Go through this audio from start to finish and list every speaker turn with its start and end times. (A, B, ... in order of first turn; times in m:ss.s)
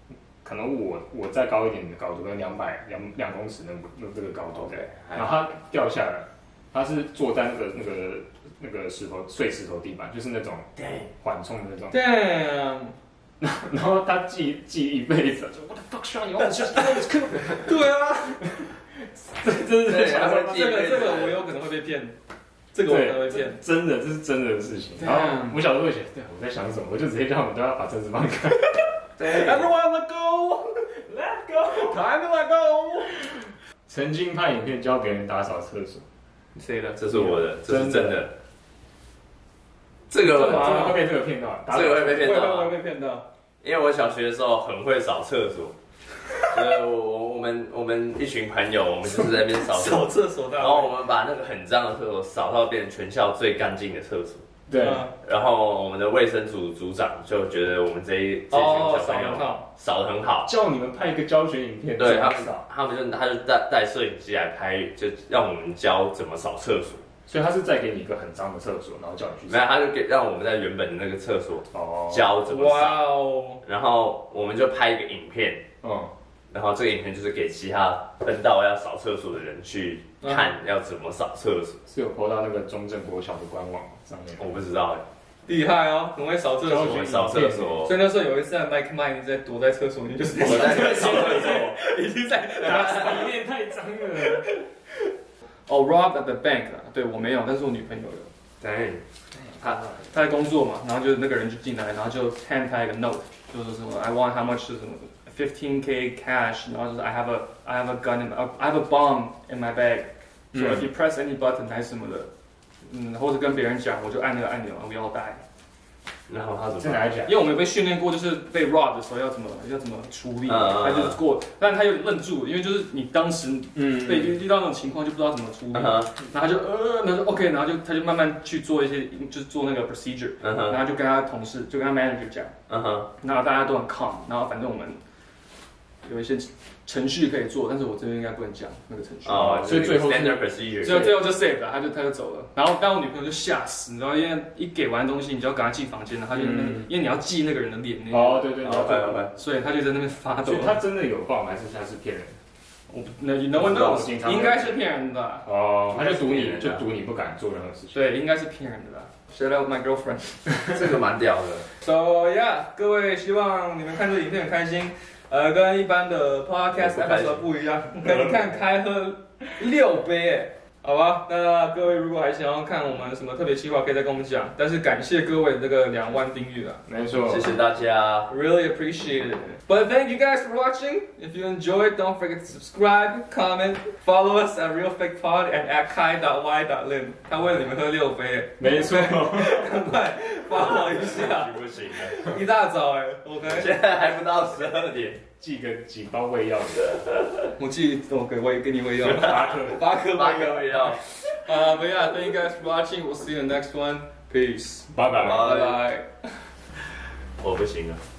0:00.4-0:12.0 A
0:04.6-0:05.4 B
0:10.8-0:11.1 B
0:11.9-0:13.0 C
0:13.4-0:20.6 A
0:17.6-0:18.4 C
0:19.8-0:21.4 B
0:20.2-0:22.2 C
0:22.7-0:23.6 C
0:22.8-0:28.8 A
0:25.0-0:25.6 C
0:29.2-0:33.3 C
0:33.9-0:36.0 A
0:36.6-0:37.4 C
0:37.0-0:38.3 B
0:37.7-0:38.3 A
0:40.1-0:41.0 B
0:40.2-0:41.0 C
0:40.3-0:42.5 A
0:41.7-0:42.8 B
0:42.1-0:43.2 C
0:43.6-0:45.8 B
0:46.4-0:54.5 B
0:49.6-0:50.9 C
0:54.7-0:55.1 A
0:54.8-0:55.1 C
0:55.2-1:00.5 B
0:58.5-0:59.7 C
1:00.5-1:02.6 A
1:02.0-1:07.0 B
1:07.3-1:09.6 A
1:09.5-1:15.6 B
1:11.7-1:12.3 A
1:12.4-1:13.6 C
1:15.8-1:16.1 A
1:16.5-1:21.8 B
1:20.2-1:20.5 C
1:21.9-1:24.5 A
1:24.4-1:25.1 B
1:25.5-1:27.2 C
1:26.6-1:27.9 A
1:26.9-1:27.9 B
1:27.8-1:33.3 C
1:30.4-1:31.8 B
1:30.6-1:31.6 A
1:32.6-1:34.5 A
1:35.7-1:38.3 C
1:38.6-1:39.0 B
1:39.4-1:40.1 A
1:39.6-1:39.9 B
1:40.1-1:52.3 C
1:50.5-1:50.9 A
1:52.8-1:55.4 C
1:56.3-1:57.1 B
1:56.8-1:57.5 A
1:57.3-2:12.5 C
2:00.5-2:01.2 B
2:03.8-2:04.4 A
2:05.7-2:06.1 B
2:10.4-2:10.8 B
2:12.7-2:13.1 B
2:13.2-2:15.0 C
2:16.0-2:19.7 C
2:19.3-2:21.2 B
2:19.6-2:21.2 A
2:20.8-2:28.6 C
2:26.3-2:26.9 A
2:28.1-2:29.3 A
2:28.6-2:29.3 B
2:29.3-2:30.8 C
2:30.4-2:32.4 A
2:32.9-2:35.5 C
2:33.6-2:34.8 A
2:35.4-2:38.0 A
2:35.9-2:36.8 B
2:37.9-2:40.7 C
2:40.7-2:41.7 B
2:41.8-2:56.8 C
2:46.8-2:47.4 B
2:56.9-2:57.5 A
2:57.2-2:58.3 B
2:58.3-3:13.7 C
3:08.6-3:09.8 A
3:10.6-3:12.3 B
3:13.5-3:15.2 B
3:15.3-3:17.0 A
3:17.6-3:26.4 C
3:19.0-3:19.8 A
3:19.1-3:21.0 B
3:24.9-3:25.5 A
3:25.2-3:25.8 B
3:27.4-3:28.0 B